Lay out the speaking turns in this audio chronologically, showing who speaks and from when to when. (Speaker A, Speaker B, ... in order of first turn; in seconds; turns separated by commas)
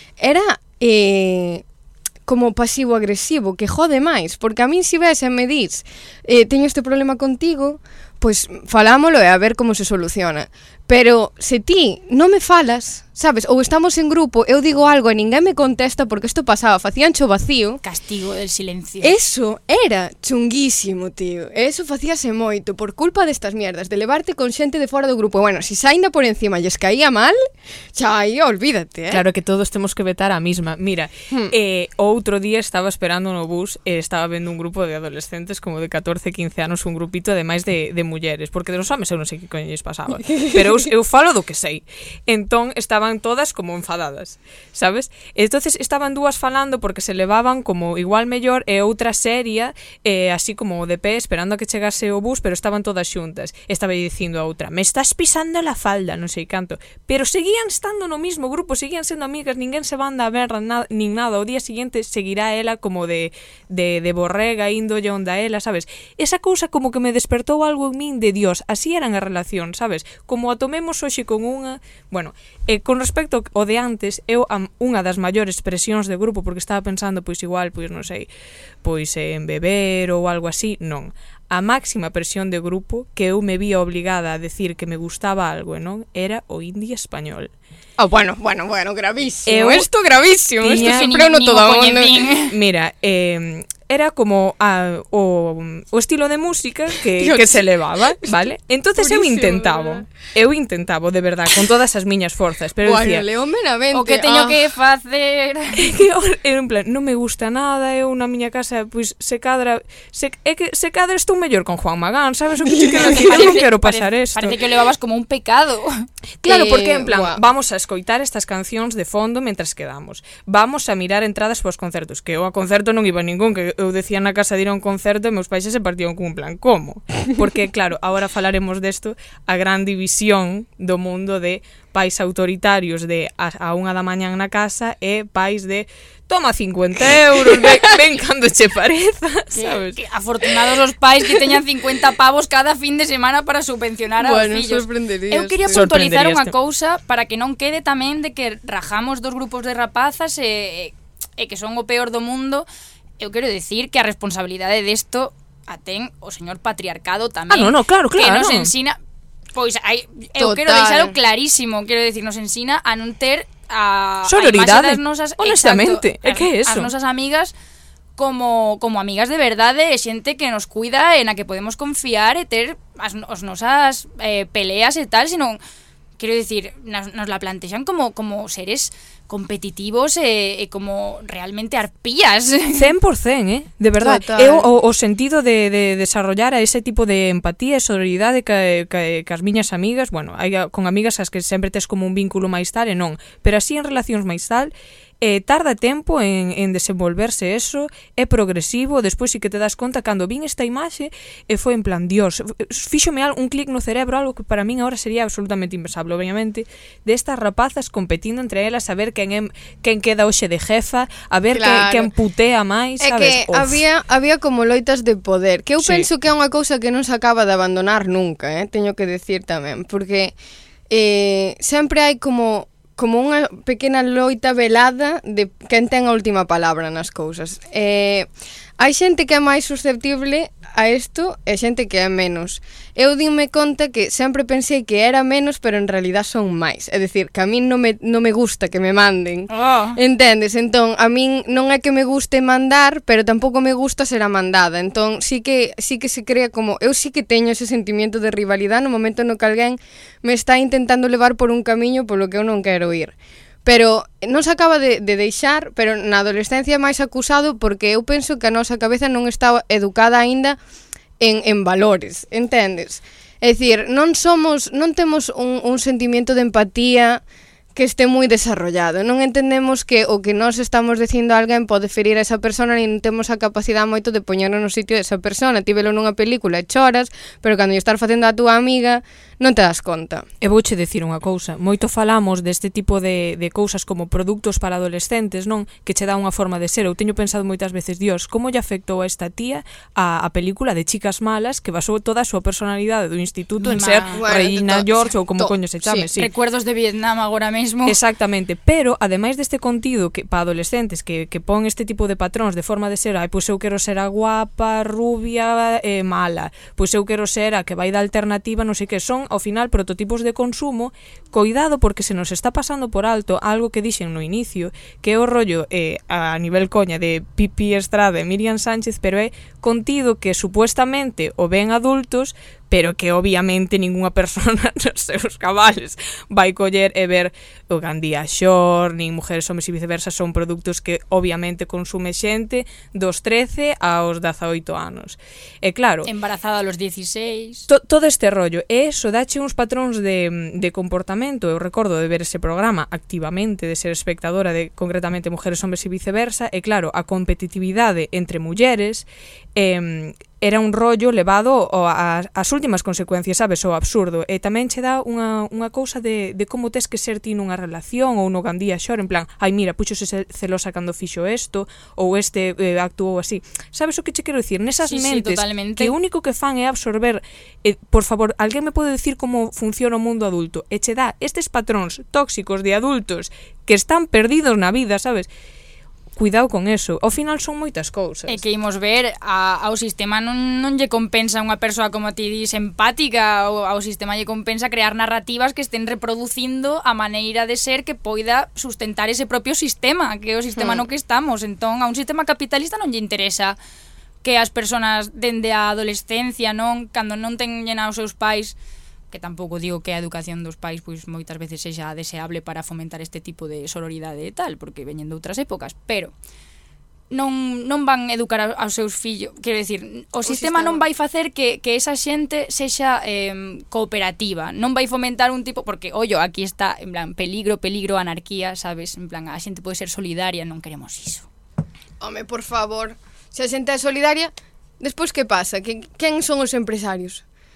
Speaker A: 0.2-1.6, Speaker A: 2.2-17.8, Speaker B: 17.8-19.1, Speaker A: 19.0-27.4, Speaker A: 27.9-29.2, Speaker C: 29.1-78.3, Speaker A: 40.2-40.9, Speaker C: 78.8-87.5, Speaker A: 88.0-92.3, Speaker C: 89.5-89.9, Speaker C: 90.6-91.1, Speaker B: 90.7-92.5, Speaker C: 92.4-103.2, Speaker A: 97.1-98.4, Speaker A: 99.0-100.0, Speaker A: 102.8-104.6, Speaker B: 103.9-105.9, Speaker C: 105.8-114.5, Speaker A: 112.8-113.4, Speaker B: 113.0-116.0, Speaker C: 116.4-140.0, Speaker A: 116.5-117.4, Speaker B: 139.5-152.7, Speaker A: 144.2-145.8, Speaker C: 145.7-146.5, Speaker B: 153.2-159.0, Speaker C: 157.5-158.7, Speaker B: 159.5-167.5, Speaker A: 160.4-161.1, Speaker C: 164.3-166.9, Speaker B: 168.2-175.6, Speaker B: 176.2-182.9, Speaker C: 182.7-213.8, Speaker A: 184.0-184.7, Speaker A: 211.5-212.1, Speaker A: 213.0-220.3, Speaker C: 215.8-216.1, Speaker A: 220.9-228.3, Speaker A: 228.8-253.1, Speaker B: 239.5-240.0, Speaker A: 253.6-260.6, Speaker A: 261.2-267.2, Speaker A: 267.7-280.2, Speaker C: 280.4-296.3, Speaker B: 293.6-294.2, Speaker A: 294.1-296.1, Speaker B: 296.1-298.0, Speaker C: 297.9-336.1, Speaker B: 336.1-337.7, Speaker C: 337.7-375.3, Speaker B: 364.9-365.9, Speaker C: 376.1-378.4, Speaker B: 378.3-393.6, Speaker A: 390.6-390.8, Speaker B: 394.2-398.5, Speaker B: 399.1-406.1, Speaker B: 407.1-421.3, Speaker A: 410.2-410.8, Speaker A: 422.0-427.2